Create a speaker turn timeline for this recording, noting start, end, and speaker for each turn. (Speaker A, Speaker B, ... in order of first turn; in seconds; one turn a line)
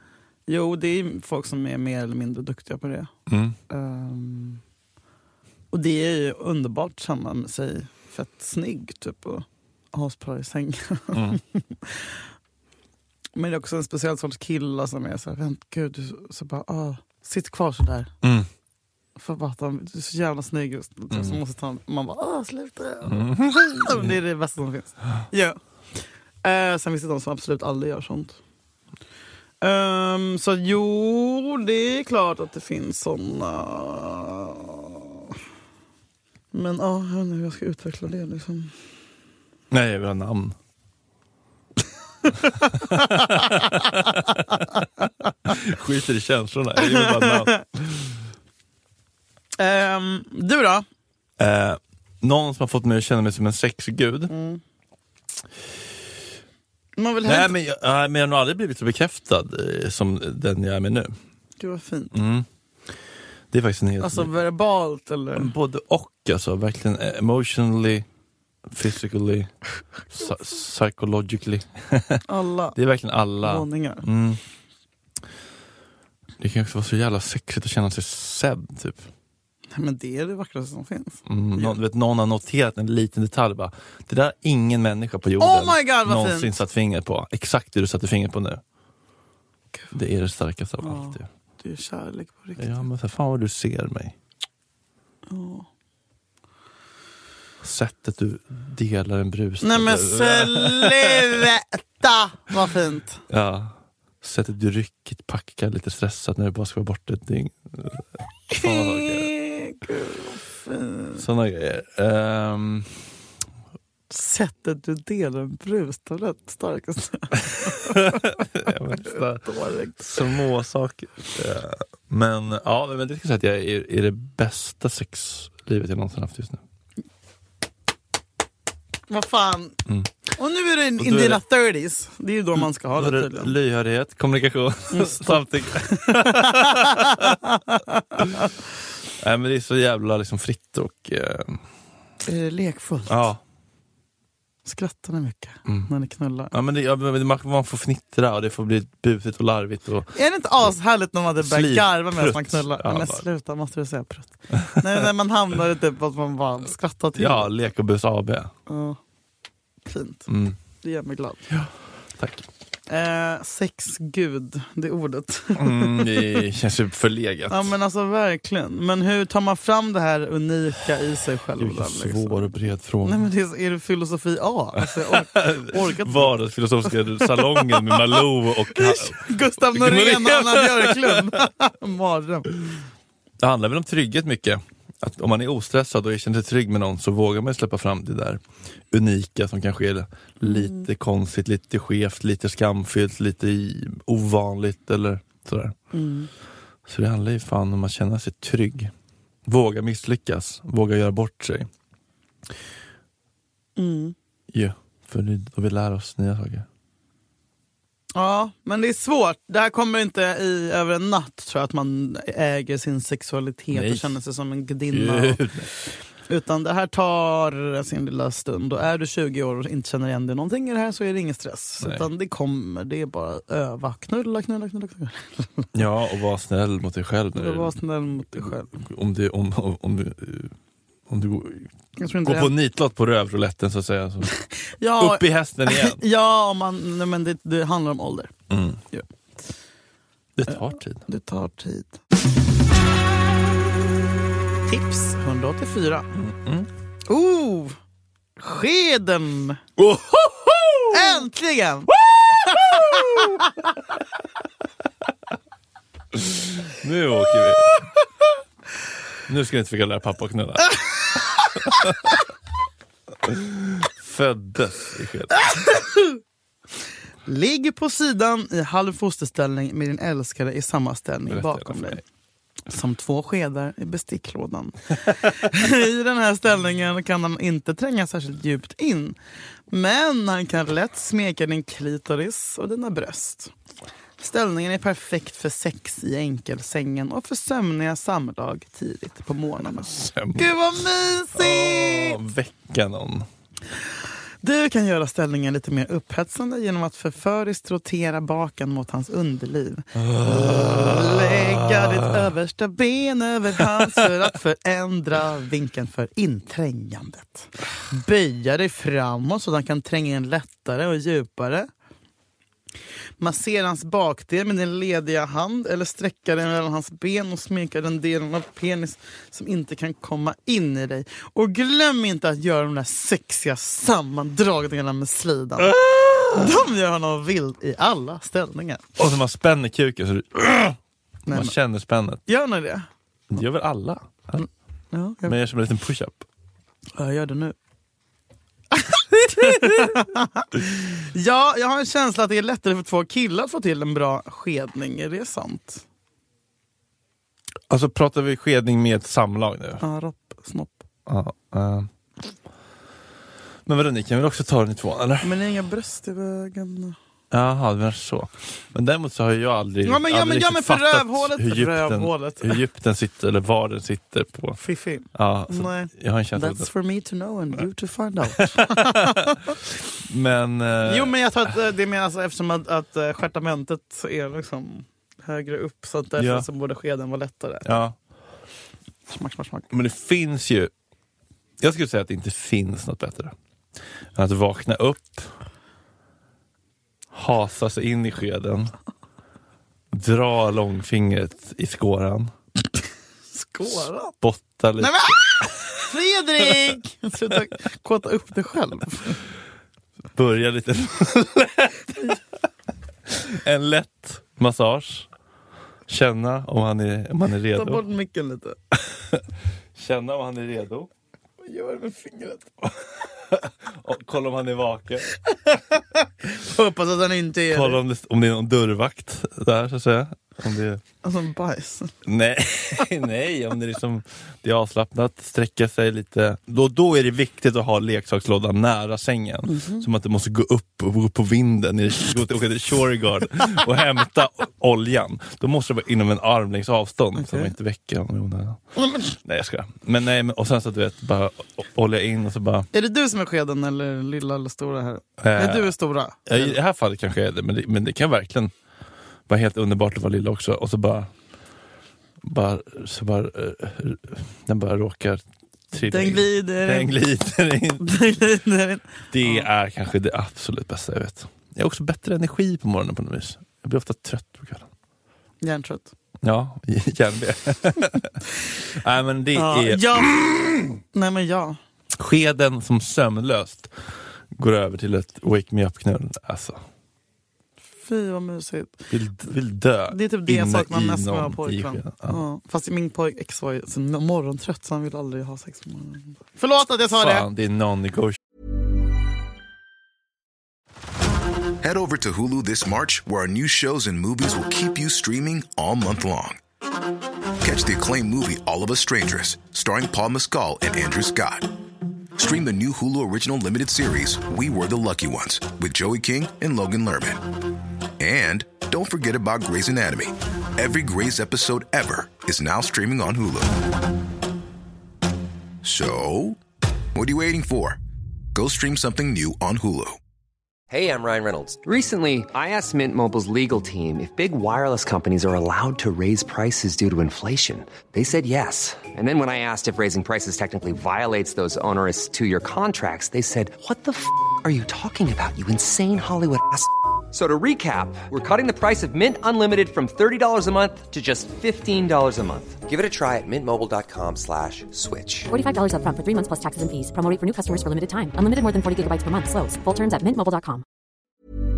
Speaker A: 0.5-3.1
Speaker B: 3.3-3.6
Speaker A: 3.7-4.6
Speaker A: 5.7-12.1
Speaker B: 11.1-11.4
Speaker A: 13.3-18.1
Speaker B: 18.2-18.5
Speaker A: 19.1-25.6
Speaker B: 21.1-21.4
Speaker B: 23.1-24.1
Speaker A: 26.4-28.4
Speaker A: 29.6-35.2
Speaker A: 36.5-38.7
Speaker B: 39.7-40.5
Speaker A: 42.4-43.7
Speaker B: 42.8-44.6
Speaker B: 45.5-48.1
Speaker A: 46.8-47.6
Speaker A: 49.6-50.9
Speaker B: 51.4-54.3
Speaker A: 54.3-54.6
Speaker A: 57.0-57.5
Speaker B: 57.2-61.1
Speaker A: 61.6-62.1
Speaker B: 62.1-62.5
Speaker B: 63.5-64.3
Speaker A: 64.0-65.5
Speaker B: 65.3-68.0
Speaker B: 68.7-69.5
Speaker B: 70.1-72.2
Speaker A: 72.3-72.8
Speaker B: 72.7-74.4
Speaker A: 73.4-74.0
Speaker B: 76.4-79.1
Speaker A: 79.7-81.8
Speaker B: 81.3-88.6
Speaker A: 85.4-86.5
Speaker B: 89.9-91.2
Speaker A: 90.8-92.8
Speaker B: 92.6-94.2
Speaker A: 95.3-95.7
Speaker B: 97.6-101.4
Speaker A: 99.6-103.2
Speaker B: 103.3-108.0
Speaker A: 108.5-111.2
Speaker B: 108.6-109.3
Speaker B: 111.2-112.9
Speaker A: 114.1-120.2
Speaker B: 117.7-119.5
Speaker B: 120.0-126.6
Speaker A: 129.1-129.8
Speaker A: 130.3-133.5
Speaker B: 131.0-131.4
Speaker B: 132.9-137.4
Speaker A: 134.9-138.5
Speaker B: 139.2-141.6
Speaker A: 142.2-143.3
Speaker B: 143.1-143.4
Speaker A: 144.6-146.5
Speaker B: 146.5-150.1
Speaker A: 150.1-157.5
Speaker B: 151.4-153.2
Speaker B: 154.6-154.9
Speaker B: 157.2-158.5
Speaker A: 158.7-159.0
Speaker A: 159.8-160.3
Speaker B: 160.3-160.6
Speaker A: 160.8-161.5
Speaker B: 161.5-162.5
Speaker A: 162.9-166.4
Speaker B: 165.6-167.7
Speaker A: 167.5-172.5
Speaker B: 171.6-173.2
Speaker A: 173.0-176.3
Speaker B: 174.8-181.3
Speaker A: 176.9-182.6
Speaker B: 183.4-188.4
Speaker B: 188.9-195.8
Speaker A: 190.4-190.9
Speaker A: 195.9-196.3
Speaker B: 196.8-198.9
Speaker B: 199.4-201.7
Speaker A: 203.8-204.1
Speaker B: 204.5-206.6
Speaker A: 208.1-215.4
Speaker B: 213.7-214.1
Speaker B: 214.9-215.7
Speaker A: 216.3-225.7
Speaker B: 225.7-227.7
Speaker A: 227.3-228.8
Speaker B: 228.3-230.5
Speaker B: 231.1-231.7
Speaker A: 232.0-232.5
Speaker B: 232.2-234.4
Speaker A: 234.8-238.3
Speaker B: 235.0-236.0
Speaker B: 238.5-238.8
Speaker B: 240.4-241.0
Speaker A: 240.5-242.0
Speaker A: 244.7-246.1
Speaker B: 246.2-246.7
Speaker A: 247.1-247.8
Speaker A: 248.4-249.6
Speaker B: 249.8-251.2
Speaker A: 250.9-251.9
Speaker B: 252.4-253.5
Speaker A: 252.4-253.5
Speaker B: 256.1-257.9
Speaker B: 259.3-260.8
Speaker B: 261.6-262.2
Speaker B: 263.2-265.8
Speaker A: 265.4-266.2
Speaker A: 267.2-272.0
Speaker B: 271.3-272.0
Speaker A: 272.7-279.2
Speaker A: 279.7-283.5
Speaker A: 284.2-292.2
Speaker B: 289.9-290.5
Speaker B: 291.3-293.3
Speaker A: 294.4-311.7
Speaker B: 299.9-302.1
Speaker A: 313.2-328.8
Speaker B: 325.6-326.5
Speaker B: 329.0-330.8
Speaker A: 331.3-331.5
Speaker B: 331.3-332.2
Speaker A: 332.3-332.9
Speaker B: 333.3-334.4
Speaker A: 334.4-335.4
Speaker B: 335.2-336.2
Speaker A: 337.0-337.6
Speaker A: 338.7-345.8
Speaker B: 339.5-339.9
Speaker B: 347.7-349.8
Speaker A: 349.8-350.8
Speaker B: 351.1-351.9
Speaker B: 353.6-355.3
Speaker A: 355.2-357.0
Speaker B: 357.3-364.6
Speaker A: 359.8-362.6
Speaker A: 364.6-369.5
Speaker B: 365.1-366.7
Speaker B: 368.4-369.4
Speaker B: 370.0-371.2
Speaker A: 370.8-377.8
Speaker B: 376.2-376.4
Speaker B: 377.6-377.9
Speaker A: 379.1-379.7
Speaker B: 379.7-380.7
Speaker B: 381.6-383.3
Speaker B: 384.1-385.3
Speaker B: 387.1-388.7
Speaker B: 389.9-392.3
Speaker A: 393.3-394.1
Speaker B: 394.2-395.2
Speaker A: 394.8-399.2
Speaker B: 400.1-402.2
Speaker B: 403.1-405.1
Speaker B: 405.9-407.8
Speaker A: 407.5-408.6
Speaker B: 409.8-410.9
Speaker A: 411.4-412.6
Speaker B: 413.3-415.2
Speaker A: 415.9-417.8
Speaker B: 417.5-420.8
Speaker A: 421.0-421.9
Speaker B: 422.1-442.7
Speaker A: 429.5-429.9
Speaker A: 437.2-437.5
Speaker A: 442.7-446.6
Speaker B: 445.2-445.7
Speaker B: 446.2-448.5
Speaker B: 449.3-451.1
Speaker B: 452.2-457.9
Speaker A: 455.7-456.9
Speaker A: 457.8-459.5
Speaker B: 459.1-464.7
Speaker A: 465.4-465.9
Speaker B: 466.2-470.8
Speaker A: 469.3-470.2
Speaker A: 470.9-471.6
Speaker B: 471.9-473.7
Speaker B: 474.3-476.6
Speaker A: 477.8-478.8
Speaker B: 478.9-482.2
Speaker A: 479.9-487.2
Speaker B: 486.9-488.2
Speaker C: 491.6-496.4
Speaker C: 497.4-501.5
Speaker C: 502.2-507.3
Speaker C: 508.0-513.6
Speaker C: 515.6-516.4
Speaker C: 516.9-517.8
Speaker C: 518.3-520.0
Speaker D: 520.7-545.3
Speaker E: 545.3-550.6